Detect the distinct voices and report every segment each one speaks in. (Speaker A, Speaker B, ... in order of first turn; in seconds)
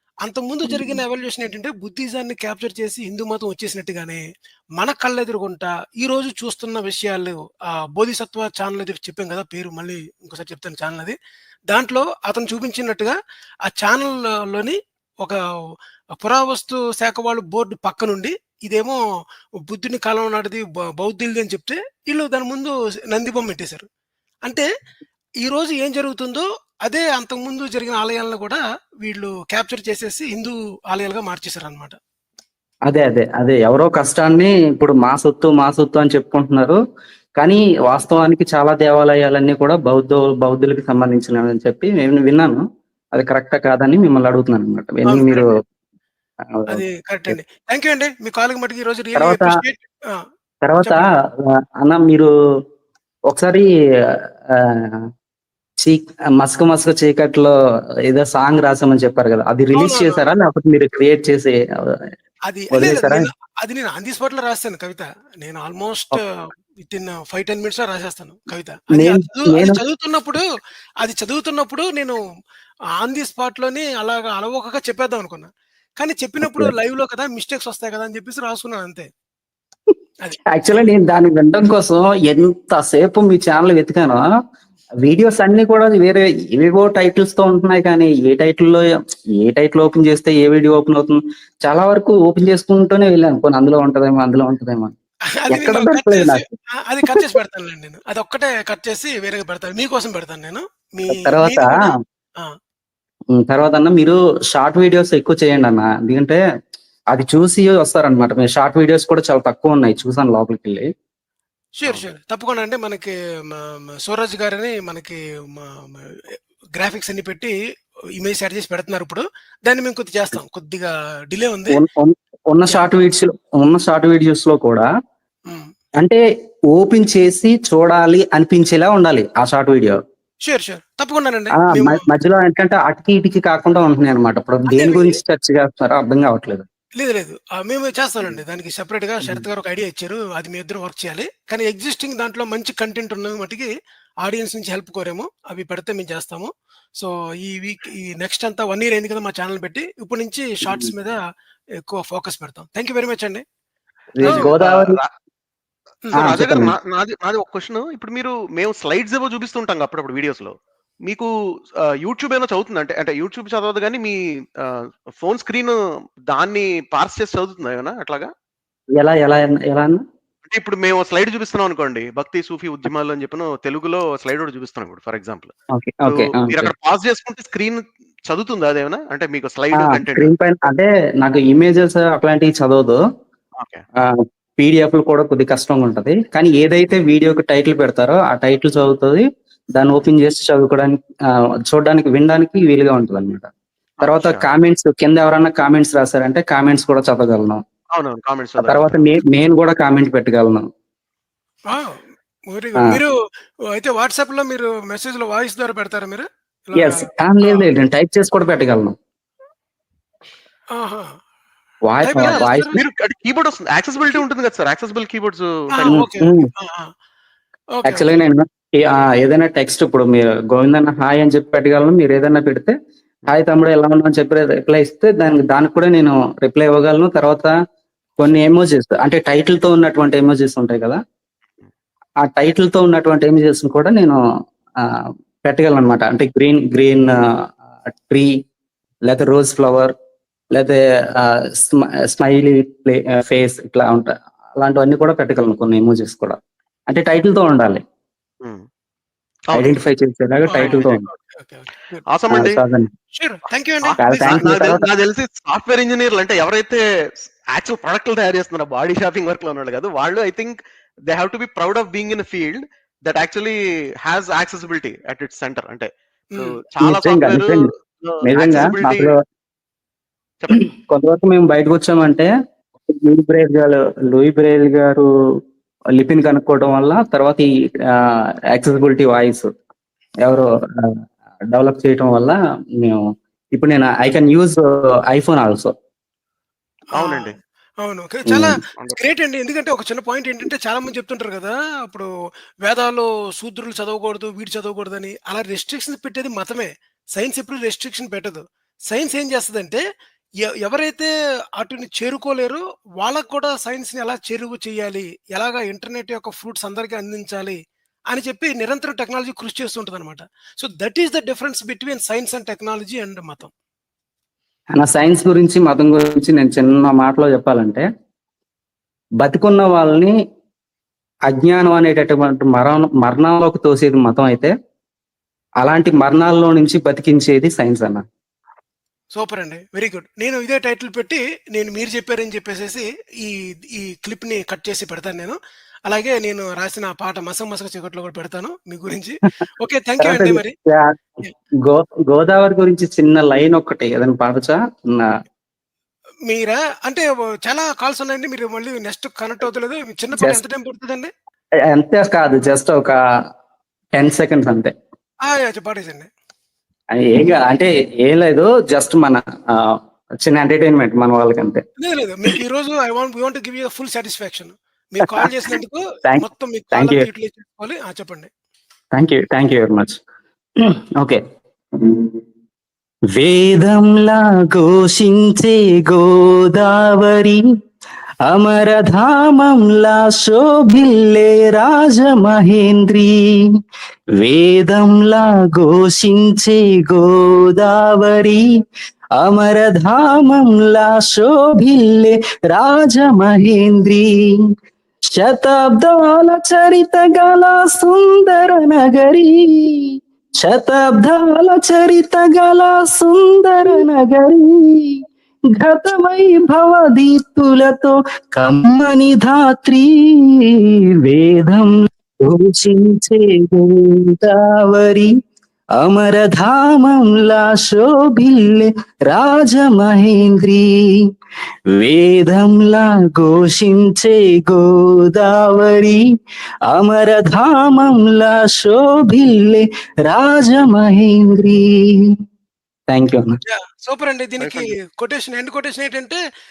Speaker A: 0.2-4.2, 4.8-11.2, 11.7-15.4, 16.2-19.0, 19.7-23.9, 25.4-32.0, 45.1-45.5, 46.7-50.2, 59.8-60.3, 62.5-70.4, 71.0-72.2, 73.0-79.1, 80.2-80.9, 95.4-102.5, 111.8-117.5, 118.2-121.8, 130.5-132.0, 134.7-135.2, 137.0-143.7, 144.2-151.2, 151.9-153.4, 154.2-154.5, 201.7-202.0, 202.5-203.2, 203.7-207.7, 210.8-211.1, 212.0-212.8, 215.7-216.9, 217.8-218.1, 250.5-252.1, 253.2-254.5, 287.0-287.3, 287.8-292.1, 292.6-299.8, 300.6-307.6, 308.1-313.5, 329.1-335.4, 335.9-340.5, 346.3-351.1, 355.2-356.1, 361.8-368.3, 433.5-436.2
Speaker B: 0.7-1.0, 32.9-36.8, 37.4-42.6, 43.1-45.5, 46.5-47.4, 49.2-49.5, 50.6-51.0, 51.8-52.3, 53.3-55.0, 55.8-57.5, 58.1-62.0, 62.7-63.3, 69.0-69.8, 76.4-76.7, 80.6-84.2, 85.0-88.9, 89.4-94.9, 95.5-96.5, 101.1-101.7, 103.3-106.4, 107.1-110.9, 121.8-124.9, 126.7-130.0, 131.6-136.6, 154.2-155.0, 156.2-156.7, 169.0-170.0, 175.8-176.7, 179.8-183.0, 184.0-189.2, 189.8-191.0, 191.7-193.5, 194.0-197.6, 198.6-200.7, 206.8-208.9, 211.9-212.7, 215.8-216.5, 217.8-222.7, 223.3-227.5, 228.2-231.0, 232.3-234.2, 235.4-237.1, 239.1-239.9, 240.5-246.4, 246.9-247.8, 249.5-251.1, 252.3-252.9, 254.0-254.9, 266.8-267.7, 268.3-269.2, 270.5-272.3, 272.9-275.1, 276.0-279.4, 280.2-280.9, 281.5-285.7, 314.8-317.9, 319.2-320.1, 321.3-324.5, 325.6-328.0, 340.0-341.0, 341.7-345.1, 351.7-353.0, 354.0-354.7, 356.9-361.6, 365.0-365.3, 366.1-367.1, 368.9-370.0, 370.6-371.2, 371.8-372.2, 373.2-377.4, 378.3-383.2, 384.2-388.4, 389.2-394.1, 395.1-399.9, 400.4-405.0, 405.6-409.9, 411.1-411.7, 412.2-415.1, 415.8-420.7, 421.8-426.0, 426.7-431.7, 432.9-433.4
Speaker C: 154.2-155.1, 156.1-160.5, 162.0-165.8, 166.3-168.3, 170.5-175.5, 176.1-180.3, 183.6-183.8, 194.0-194.4, 197.9-199.1, 212.3-216.1, 250.6-251.1, 252.1-252.6, 253.8-256.8, 257.5-260.6, 261.1-269.1, 286.9-287.4